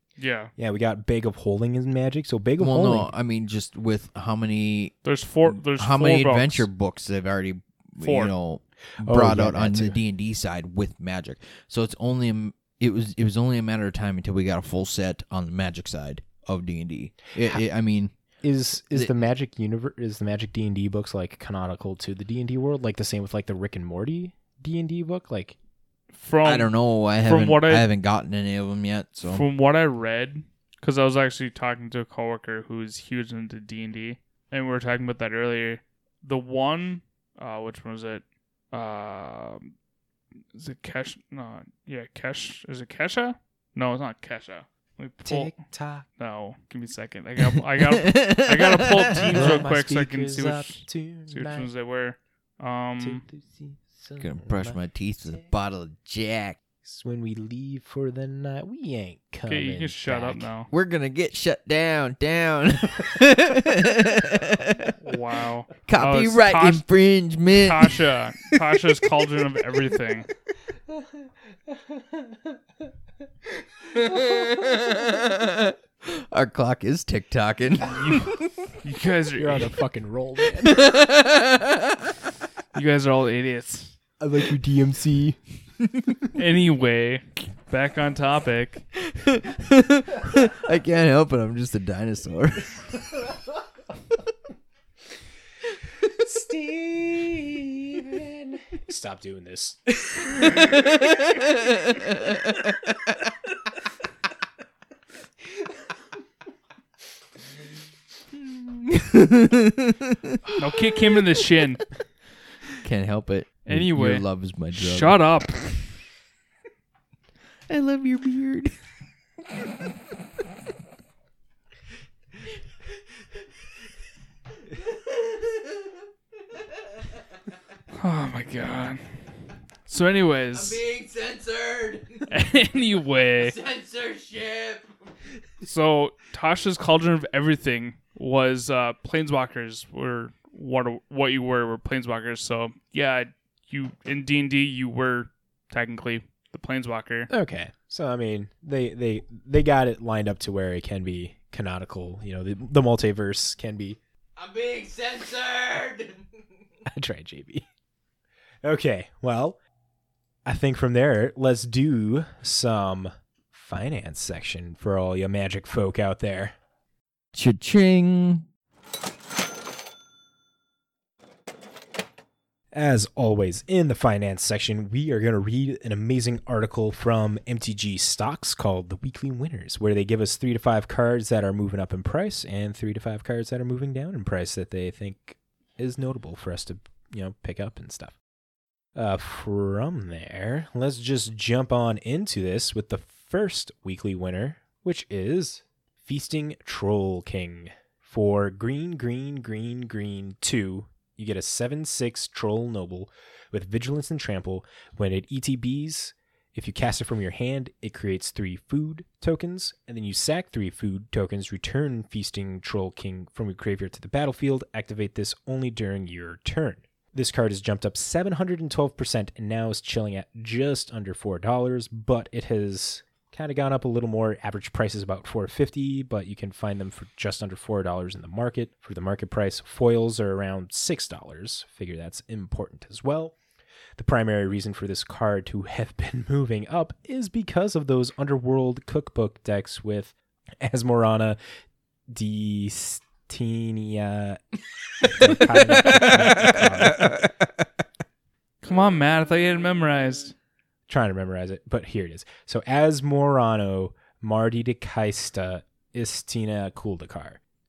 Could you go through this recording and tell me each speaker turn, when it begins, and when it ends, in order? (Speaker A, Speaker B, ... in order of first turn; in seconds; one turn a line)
Speaker A: 0.2-0.5
Speaker B: 0.6-3.1
Speaker C: 2.6-18.1
Speaker A: 5.0-6.7
Speaker A: 8.0-8.3
Speaker B: 9.0-10.0
Speaker B: 18.4-25.6
Speaker A: 26.1-27.9
Speaker C: 26.4-29.4
Speaker A: 29.3-39.7
Speaker A: 40.5-45.5
Speaker B: 45.2-46.1
Speaker A: 46.2-53.2
Speaker C: 47.9-49.6
Speaker B: 49.2-51.7
Speaker B: 53.0-54.8
Speaker C: 54.2-56.6
Speaker B: 56.8-60.5
Speaker A: 59.5-60.7
Speaker C: 60.7-65.0
Speaker A: 65.0-66.8
Speaker C: 65.9-68.5
Speaker A: 67.5-70.3
Speaker C: 73.9-78.7
Speaker A: 78.8-79.7
Speaker B: 79.4-80.9
Speaker C: 80.6-82.2
Speaker A: 82.7-84.0
Speaker B: 84.2-85.4
Speaker A: 86.3-88.8
Speaker C: 89.0-93.2
Speaker B: 96.0-100.8
Speaker C: 100.4-102.9
Speaker C: 108.5-110.4
Speaker A: 110.6-111.8
Speaker C: 112.8-115.2
Speaker A: 113.7-115.9
Speaker C: 117.7-118.8
Speaker C: 119.5-120.0
Speaker C: 124.6-127.6
Speaker A: 128.0-129.3
Speaker A: 129.9-130.8
Speaker C: 130.5-132.3
Speaker A: 132.3-133.6
Speaker C: 133.4-135.3
Speaker A: 135.6-147.3
Speaker B: 147.3-154.0
Speaker C: 154.4-156.6
Speaker B: 156.9-157.6
Speaker B: 158.6-159.6
Speaker B: 160.5-166.5
Speaker C: 167.3-168.5
Speaker B: 172.7-188.2
Speaker B: 189.0-233.3
Speaker B: 234.0-241.4
Speaker B: 242.1-244.4
Speaker B: 245.0-247.2
Speaker C: 245.9-247.2
Speaker A: 248.6-250.3
Speaker B: 250.9-257.4